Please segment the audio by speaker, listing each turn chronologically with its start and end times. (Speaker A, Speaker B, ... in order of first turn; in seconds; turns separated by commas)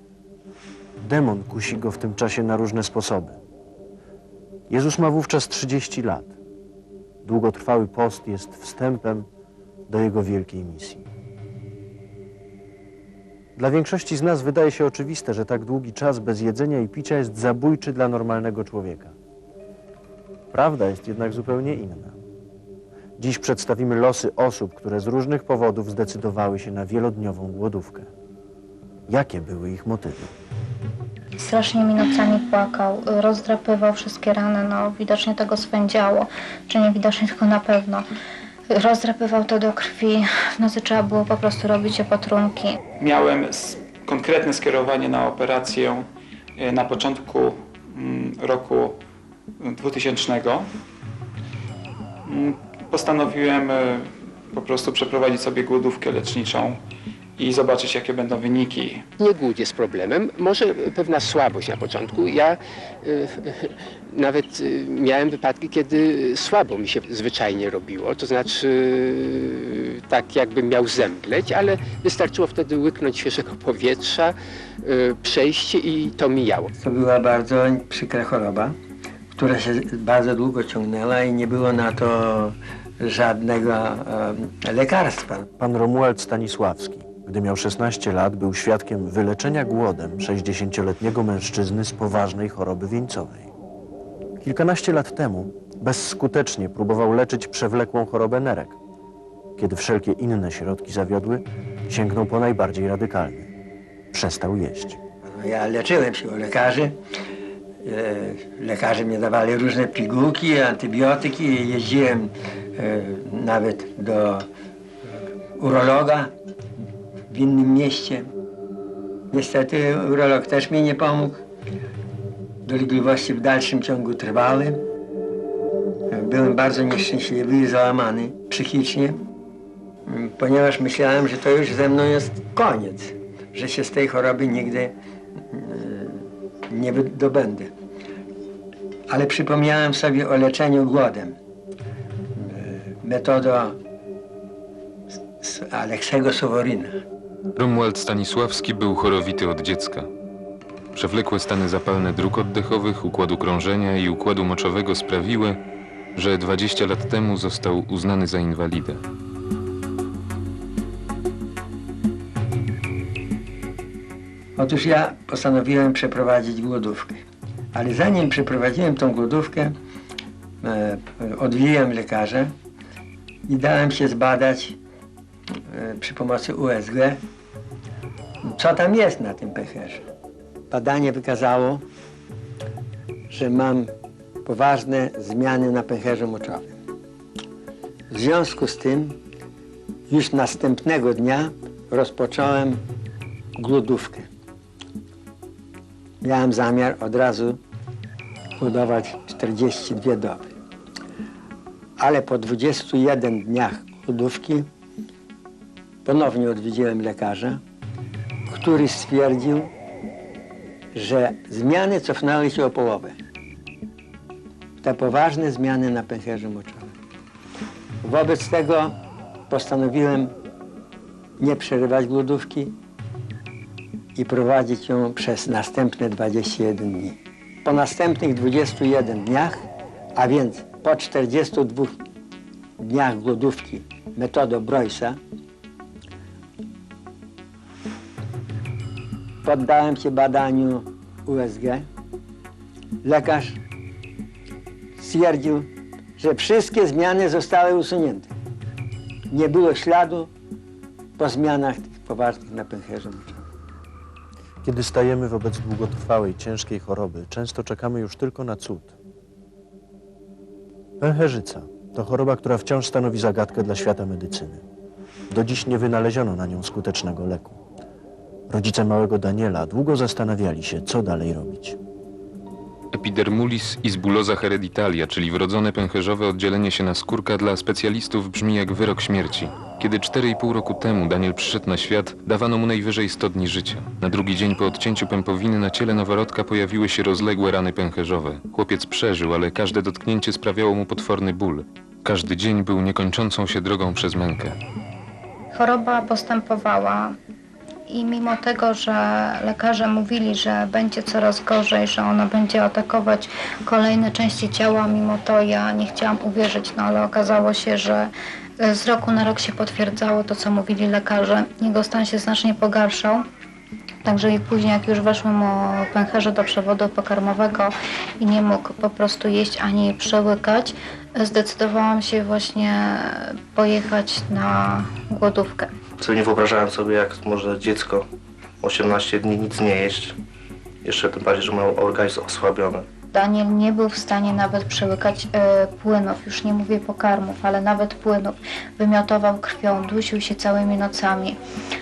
Speaker A: 1.0-3.4, Speaker A: 4.7-6.3, Speaker A: 7.2-9.3, Speaker A: 9.9-11.1, Speaker A: 13.6-19.1, Speaker A: 20.5-22.2, Speaker A: 23.2-28.1, Speaker A: 29.1-30.3, Speaker B: 31.4-38.1, Speaker B: 38.7-42.8, Speaker C: 43.0-49.0, Speaker C: 49.6-50.7, Speaker C: 52.2-56.8, Speaker C: 57.4-59.0, Speaker D: 59.2-76.7, Speaker E: 76.8-78.8, Speaker E: 79.3-85.5, Speaker A: 85.6-93.5, Speaker A: 94.4-98.8, Speaker A: 99.6-103.5, Speaker A: 104.1-105.0, Speaker E: 105.2-107.0, Speaker E: 107.8-114.5, Speaker E: 115.6-116.3, Speaker E: 117.3-118.3, Speaker E: 119.3-121.4, Speaker E: 122.6-124.8, Speaker E: 126.1-129.2, Speaker E: 130.1-134.9, Speaker E: 135.5-137.7, Speaker E: 139.1-141.3, Speaker E: 142.3-143.8, Speaker E: 145.4-146.9, Speaker F: 147.5-150.1, Speaker F: 150.9-155.6, Speaker F: 156.1-159.0, Speaker E: 164.6-167.2, Speaker E: 167.7-169.7, Speaker E: 170.6-172.5, Speaker E: 173.5-174.8, Speaker E: 175.7-177.2, Speaker E: 178.4-180.1, Speaker E: 180.7-181.8, Speaker E: 183.3-183.9, Speaker E: 184.4-186.8, Speaker E: 188.1-189.2, Speaker E: 190.1-192.8, Speaker E: 193.6-194.3, Speaker E: 196.2-197.6, Speaker E: 198.6-200.5, Speaker E: 202.0-204.7, Speaker E: 206.0-207.6, Speaker E: 208.5-209.7, Speaker E: 210.9-213.2, Speaker E: 214.8-216.9, Speaker E: 218.0-219.0, Speaker E: 219.5-220.3, Speaker E: 221.4-222.7, Speaker E: 224.1-232.0, Speaker E: 232.8-235.2, Speaker E: 239.4-241.9, Speaker E: 243.0-243.6, Speaker E: 245.0-248.3, Speaker E: 249.3-250.3, Speaker E: 251.2-253.4, Speaker A: 254.6-258.9, Speaker A: 261.0-264.6, Speaker A: 265.3-267.6, Speaker A: 268.5-271.8, Speaker F: 272.9-294.6, Speaker B: 295.5-297.2, Speaker B: 297.9-313.2, Speaker B: 314.0-325.7, Speaker G: 326.0-328.1, Speaker G: 328.6-330.2, Speaker G: 330.8-332.9, Speaker B: 333.1-341.4